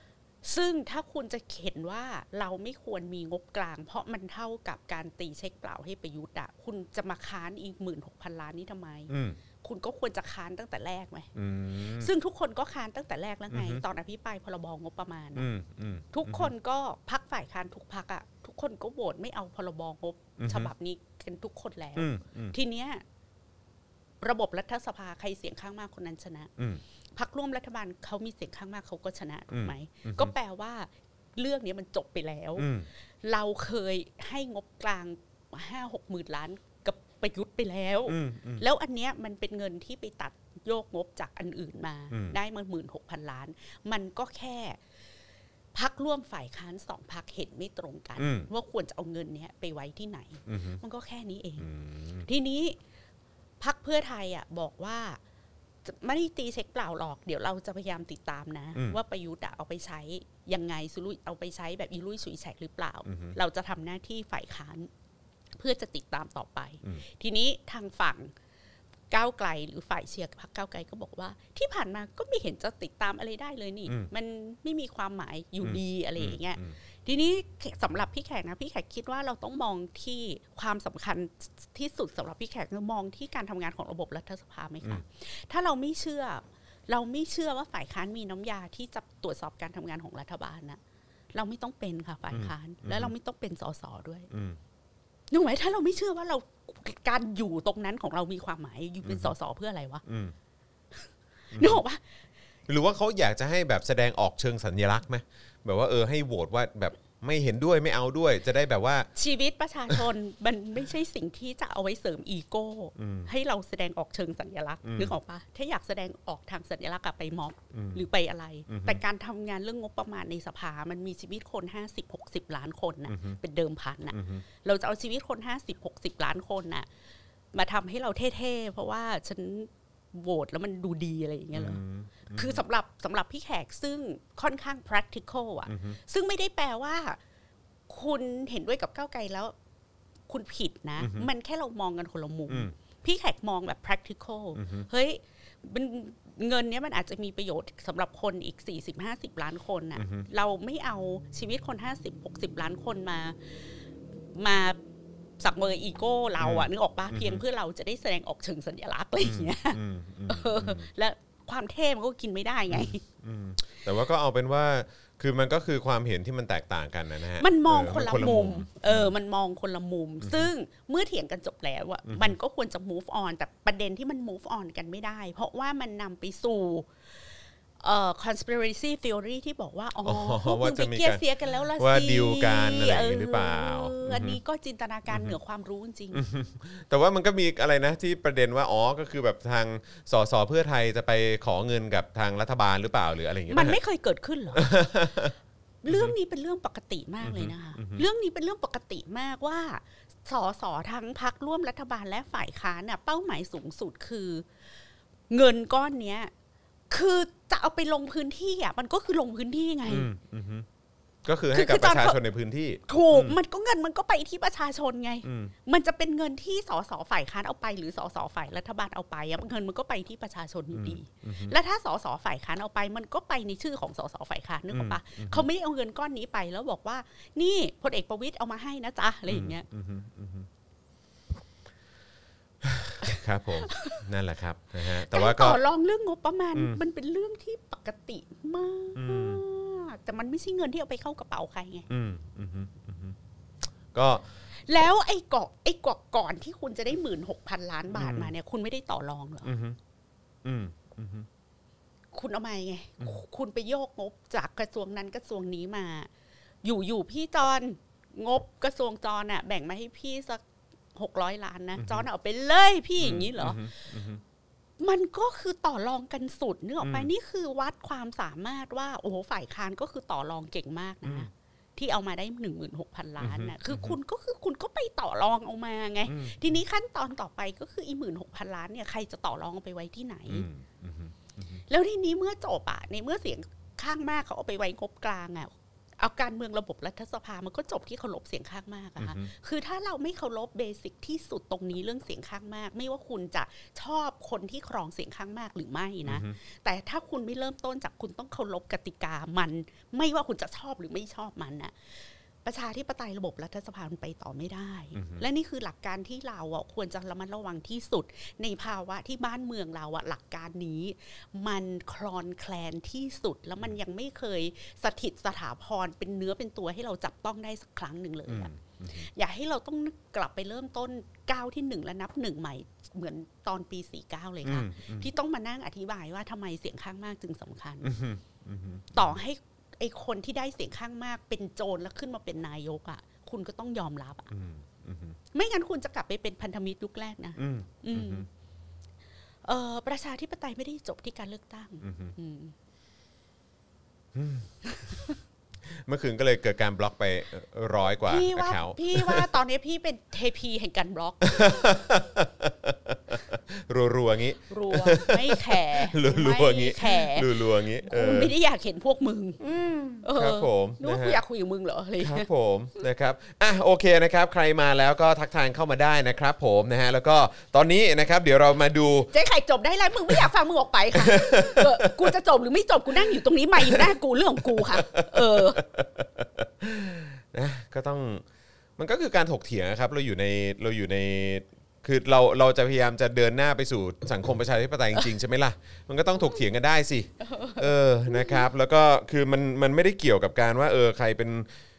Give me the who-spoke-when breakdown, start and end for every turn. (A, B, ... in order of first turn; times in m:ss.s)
0:00.4-0:15.5 A
0:09.1-0:09.4 B
0:11.3-0:12.1 B
0:13.5-0:13.8 B
0:15.4-0:16.5 B
0:16.1-0:23.0 A
0:20.4-0:20.7 B
0:22.0-0:22.5 B
0:24.2-0:26.5 A
0:27.2-0:32.7 A
0:29.5-0:30.3 B
0:32.6-0:32.9 B
0:33.2-0:44.8 A
0:38.1-0:38.6 B
0:42.1-0:42.4 B
0:45.7-0:51.7 A
0:48.2-0:48.5 B
0:50.5-0:50.8 B
0:51.6-0:52.3 B
0:52.2-0:52.8 A
0:53.6-0:55.2 A
0:55.8-1:04.9 A
1:03.0-1:03.4 B
1:05.6-1:08.3 A
1:09.1-1:30.8 A
1:15.6-1:16.7 B
1:31.3-1:34.3 A
1:32.3-1:33.1 B
1:34.3-1:34.6 B
1:35.3-1:40.0 A
1:39.0-1:39.3 B
1:40.0-1:40.3 B
1:41.5-1:41.8 B
1:41.5-1:42.0 A
1:42.7-1:49.1 B
1:49.2-2:06.9 A
1:53.0-1:53.3 B
1:54.8-1:55.1 B
1:57.7-1:58.0 B
1:58.7-1:59.0 B
2:03.1-2:03.4 B
2:04.1-2:04.4 B
2:07.5-2:17.2 A
2:11.5-2:12.6 B
2:15.7-2:16.0 B
2:17.9-2:19.5 A
2:20.3-2:33.4 A
2:21.0-2:21.3 B
2:24.5-2:24.8 B
2:30.0-2:30.3 B
2:34.3-2:34.8 A
2:35.4-2:43.0 A
2:36.4-2:37.4 B
2:39.2-2:40.9 B
2:42.7-2:49.1 B
2:47.4-2:56.9 A
2:50.2-2:50.5 B
2:52.1-2:52.4 B
2:57.8-3:06.2 A
3:00.0-3:01.2 B
3:01.7-3:04.4 B
3:05.1-3:05.4 B
3:06.1-3:13.8 B
3:13.5-3:14.9 A
3:14.5-3:15.3 B
3:15.8-3:24.4 A
3:15.9-3:16.1 B
3:17.2-3:18.0 B
3:25.3-3:26.3 A
3:26.9-3:30.1 A
3:29.9-3:30.6 B
3:31.2-3:33.4 B
3:31.5-3:32.2 A
3:32.9-3:49.6 A
3:35.2-3:35.5 B
3:40.7-3:41.5 B
3:44.7-3:45.5 B
3:49.3-3:50.5 B
3:52.6-3:55.6 B
3:53.0-3:54.0 A
3:55.0-4:01.9 A
3:59.0-3:59.4 B
4:01.9-4:03.2 B
4:03.9-4:04.2 B
4:04.7-4:09.5 A
4:07.9-4:08.3 B
4:09.4-4:09.8 B
4:10.4-4:11.3 B
4:12.1-4:16.1 A
4:16.6-4:20.4 A
4:20.9-4:23.8 A
4:21.8-4:22.0 B
4:23.0-4:24.2 B
4:24.8-4:40.4 A
4:26.8-4:27.1 B
4:31.0-4:31.3 B
4:33.2-4:34.0 B
4:36.1-4:36.5 B
4:40.3-4:41.6 B
4:41.7-5:27.9 A
4:49.0-4:49.3 B
4:56.0-4:56.4 B
5:04.9-5:05.2 B
5:18.3-5:19.1 B
5:24.4-5:25.1 B
5:27.8-5:29.2 B
5:28.9-5:34.3 A
5:34.3-5:35.2 B
5:35.3-5:38.3 A
5:37.4-5:38.3 B
5:39.4-5:42.5 A
5:41.8-5:42.1 B
5:44.1-5:44.5 B
5:44.7-5:45.1 A
5:45.7-5:49.3 B
5:48.0-5:51.8 A
5:51.2-5:58.3 B
5:54.5-6:02.3 A
5:59.4-6:01.2 B
6:02.0-6:09.1 B
6:09.1-6:15.6 A
6:10.9-6:12.1 B
6:12.9-6:18.2 B
6:18.8-6:31.5 B
6:27.2-6:28.4 A